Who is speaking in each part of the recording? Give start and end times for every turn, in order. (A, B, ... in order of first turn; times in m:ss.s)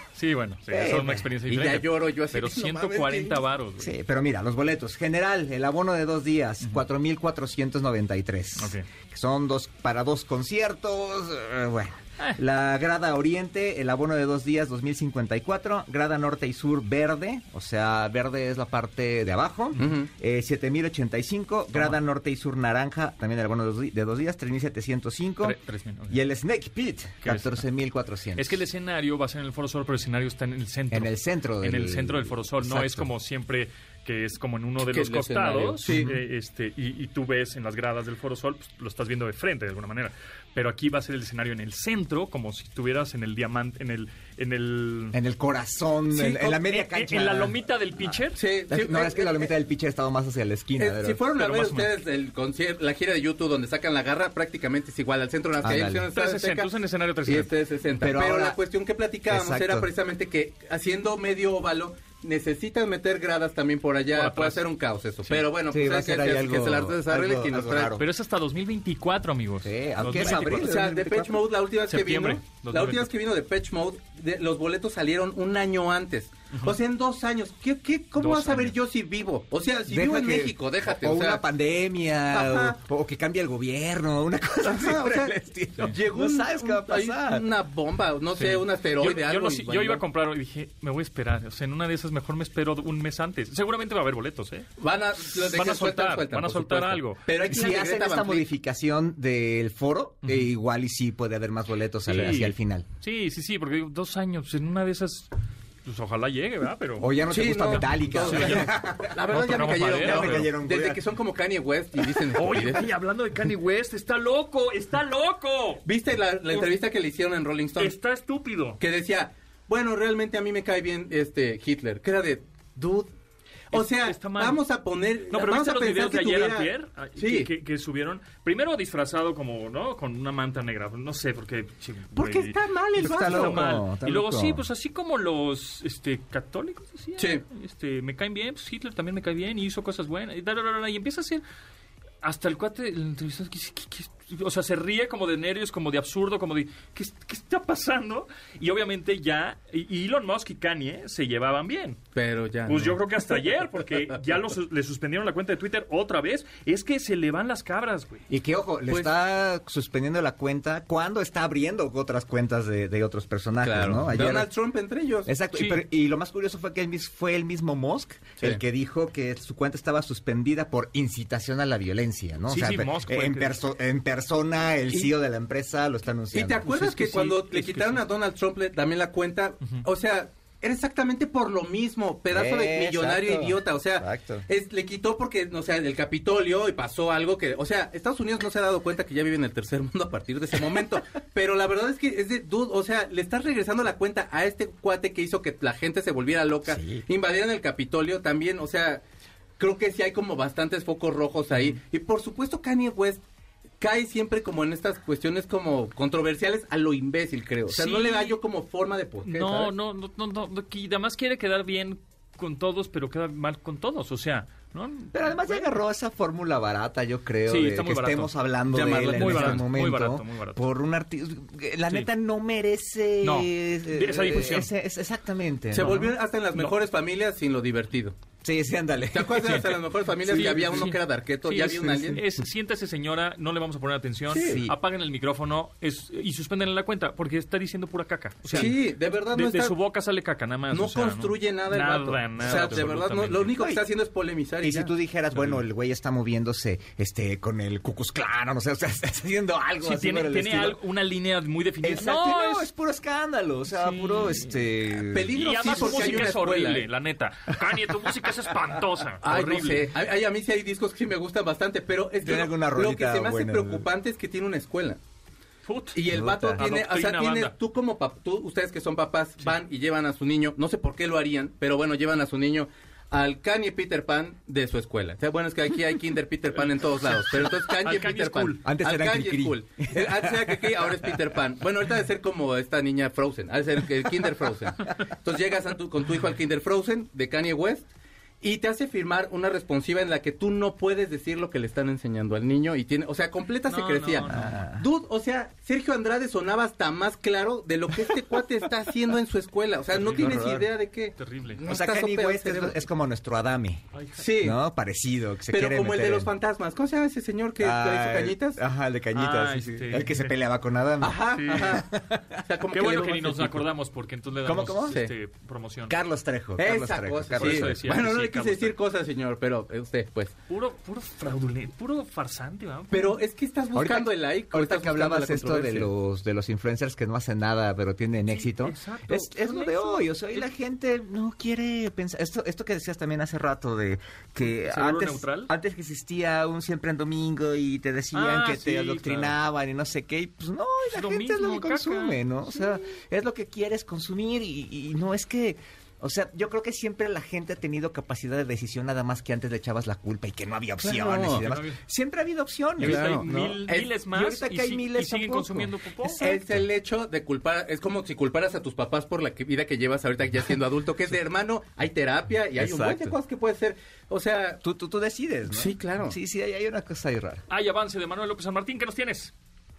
0:00.2-0:03.9 A
0:00.7-0:01.3 B
0:01.5-0:03.4 C
0:03.8-0:25.6 B
0:08.6-0:08.8 A
0:19.8-0:20.1 C
0:25.4-0:26.2 A
0:26.1-0:28.6 B
0:27.2-0:27.6 A
0:28.4-0:45.2 A
0:30.9-0:33.1 B
0:34.9-0:36.1 C
0:35.8-0:36.2 B
0:45.1-0:47.6 B
0:46.1-0:46.6 C
0:46.6-0:48.4 A
0:48.3-0:49.5 C
0:48.7-0:51.2 B
0:50.8-0:56.7 C
0:51.3-0:51.9 A
0:55.6-0:56.1 B
0:56.1-0:57.5 A
0:57.2-1:08.0 C
0:58.0-0:58.6 B
0:59.3-0:59.9 B
1:04.1-1:04.6 A
1:05.7-1:08.0 B
1:08.0-1:10.7 A
1:09.6-1:11.4 B
1:10.1-1:21.4 C
1:11.9-1:13.1 A
1:18.2-1:18.7 A
1:19.9-1:27.5 B
1:22.3-1:22.8 C
1:24.6-1:30.0 C
1:28.4-1:34.7 A
1:34.8-1:38.4 C
1:35.2-1:37.2 A
1:37.4-1:42.8 B
1:42.1-1:45.3 A
1:45.8-1:47.1 A
1:47.0-1:51.0 B
1:47.3-1:52.9 C
1:47.7-1:48.7 A
1:49.3-1:50.5 A
1:52.3-1:55.8 A
1:55.8-1:57.9 C
1:57.8-1:58.8 A
1:58.8-2:03.1 C
2:03.7-2:07.5 C
2:03.7-2:04.6 A
2:05.3-2:21.4 A
2:12.1-2:13.7 C
2:13.0-2:14.6 B
2:17.2-2:17.4 C
2:22.2-2:32.0 A
2:32.1-2:33.4 C
2:32.6-2:38.2 A
2:38.3-2:44.5 B
2:43.6-2:45.3 C
2:45.2-2:56.7 B
2:45.5-2:45.8 A
2:52.5-2:53.6 A
2:56.3-3:19.0 C
2:56.7-2:58.0 A
3:02.3-3:04.4 B
3:16.7-3:17.0 B
3:19.6-3:23.2 C
3:23.8-3:29.7 C
3:27.7-3:28.4 A
3:29.2-3:35.7 A
3:35.1-3:46.0 B
3:37.5-3:40.6 A
3:38.7-3:39.6 C
3:43.2-3:44.7 A
3:45.7-3:48.1 C
3:45.8-3:46.7 A
3:48.4-3:50.9 B
3:49.1-3:52.2 C
3:50.3-3:58.8 A
3:51.9-3:52.2 B
3:54.3-3:54.6 C
3:54.3-3:54.8 B
3:58.4-3:58.7 B
3:58.5-3:59.8 C
3:59.3-4:03.5 A
4:00.7-4:04.9 C
4:02.4-4:02.9 B
4:03.6-4:03.8 B
4:04.6-4:10.8 B
4:09.8-4:12.7 A
4:11.8-4:16.4 B
4:13.7-4:14.5 A
4:15.1-4:16.9 C
4:15.3-4:19.9 A
4:19.2-4:25.0 C
4:22.2-4:23.8 B
4:25.6-4:26.0 A
4:25.9-4:47.8 C
4:26.1-4:26.6 B
4:26.6-4:27.5 A
4:37.8-4:38.6 A
4:38.6-4:40.8 B
4:48.4-5:02.8 C
4:53.7-4:54.6 A
4:54.2-4:54.8 B
5:00.0-5:00.4 A
5:00.0-5:00.6 B
5:01.2-5:01.6 A
5:01.6-5:03.8 B
5:03.9-5:04.2 A
5:04.2-5:04.6 C
5:04.4-5:06.3 B
5:05.5-5:08.6 C
5:07.6-5:12.4 B
5:09.1-5:10.3 A
5:11.0-5:11.8 C
5:11.3-5:11.8 A
5:12.4-5:13.7 C
5:12.7-5:15.9 A
5:14.4-5:15.0 B
5:15.9-5:17.7 B
5:16.6-5:20.3 C
5:17.4-5:18.8 A
5:20.5-5:23.2 A
5:22.9-5:25.9 C
5:23.7-5:56.6 B
5:28.3-5:30.5 A
5:34.6-5:35.5 A
5:38.1-5:39.4 A
5:40.9-5:42.8 A
5:50.8-5:51.5 C
5:51.4-5:51.8 A
5:52.8-5:56.2 A
5:52.8-5:53.8 C
5:56.2-6:04.6 C
6:02.6-6:03.2 B
6:04.6-6:07.4 B
6:05.5-6:06.2 C
6:07.5-6:09.3 A